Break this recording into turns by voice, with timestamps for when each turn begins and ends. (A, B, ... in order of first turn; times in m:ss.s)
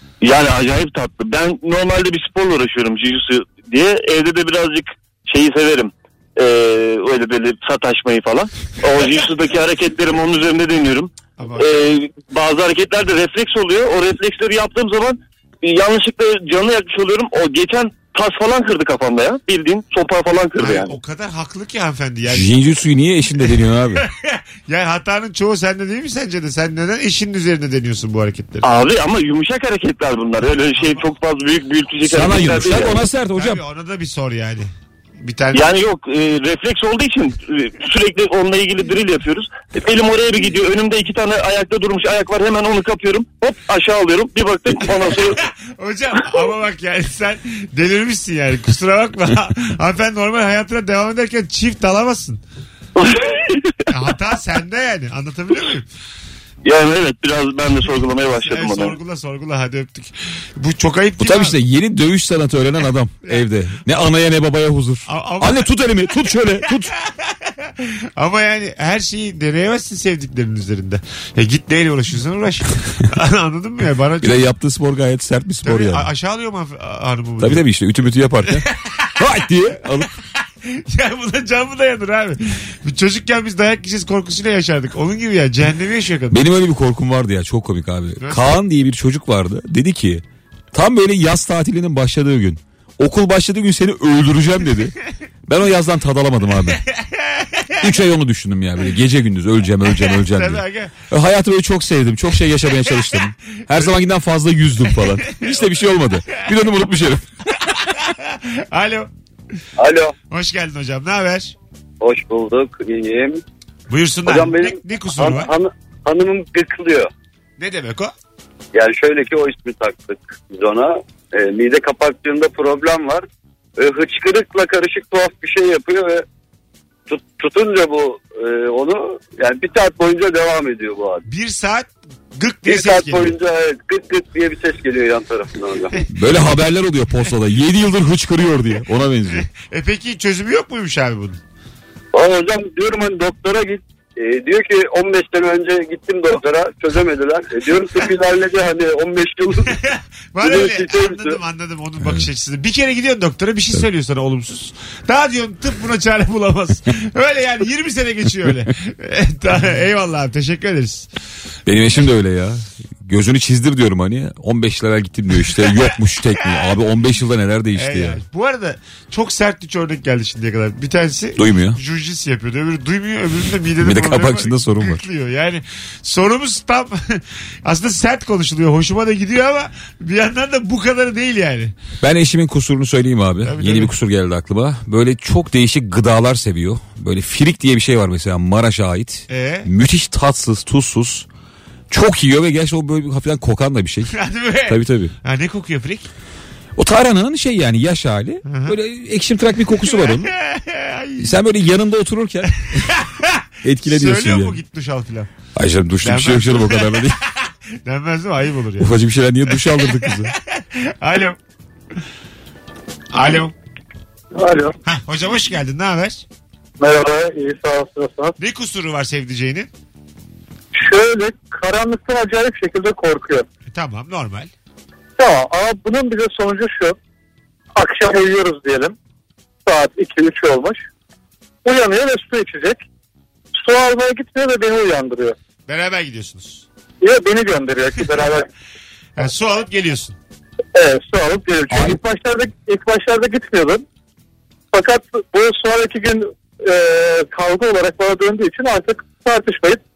0:00.2-0:20.9 A
0:11.4-0:11.7 B
0:20.6-0:22.5 B
0:22.3-0:24.0 C
0:23.4-0:28.7 B
0:28.6-0:33.0 A
0:30.7-0:31.1 B
0:32.0-0:33.6 C
0:33.3-0:35.7 B
0:35.5-0:45.4 A
0:45.4-0:52.4 B
0:53.0-0:53.8 A
0:53.9-0:55.8 B
0:56.6-0:59.0 A
0:58.4-1:01.6 B
1:01.2-1:06.9 C
1:05.1-1:06.2 B
1:07.6-1:14.4 B
1:14.2-1:16.1 C
1:15.6-1:17.6 B
1:17.4-1:18.6 C
1:18.4-1:19.1 B
1:19.2-1:20.1 C
1:20.1-1:26.4 B
1:26.3-1:34.9 C
1:28.2-1:28.6 B
1:35.4-1:36.8 C
1:36.9-1:37.8 B
1:37.8-1:47.2 C
1:39.8-1:40.9 B
1:45.0-1:46.4 B
1:47.8-1:49.1 B
1:49.8-1:50.1 D
1:50.3-1:51.5 B
1:52.0-1:53.4 D
1:53.9-1:55.5 B
1:54.2-1:57.1 D
1:57.6-1:58.1 B
1:58.7-2:03.2 D
2:03.8-2:06.2 D
2:07.1-2:11.2 D
2:11.3-2:13.4 B
2:12.6-2:16.0 D
2:16.1-2:19.4 C
2:19.4-2:21.4 B
2:22.1-2:29.7 D
2:29.7-2:41.1 B
2:30.4-2:31.4 D
2:41.6-2:48.2 C
2:45.6-2:46.7 B
2:47.7-3:01.7 B
2:51.4-2:51.8 C
2:53.8-2:55.0 C
3:02.0-3:11.3 C
3:03.4-3:03.9 B
3:09.3-3:09.7 B
3:11.9-3:14.1 C
3:14.1-3:16.1 B
3:14.7-3:15.1 C
3:16.8-3:20.3 C
3:18.4-3:18.8 B
3:19.8-3:21.4 B
3:21.2-3:22.9 C
3:22.8-3:25.3 B
3:23.6-3:24.6 C
3:25.5-3:27.2 C
3:26.0-3:28.9 B
3:28.8-3:30.3 C
3:29.5-3:31.4 B
3:33.1-3:33.5 B
3:34.3-3:34.7 E
3:34.8-3:36.2 B
3:36.8-3:38.3 E
3:38.4-3:39.7 B
3:40.7-3:43.4 E
3:43.7-3:44.5 B
3:45.2-3:47.0 E
3:47.7-3:49.0 E
3:49.6-3:50.8 E
3:51.6-3:52.8 E
3:53.5-3:55.3 E
3:55.7-3:56.6 B
3:57.0-3:58.5 E
3:59.2-4:00.2 B
4:00.7-4:03.8 E
4:04.7-4:09.8 E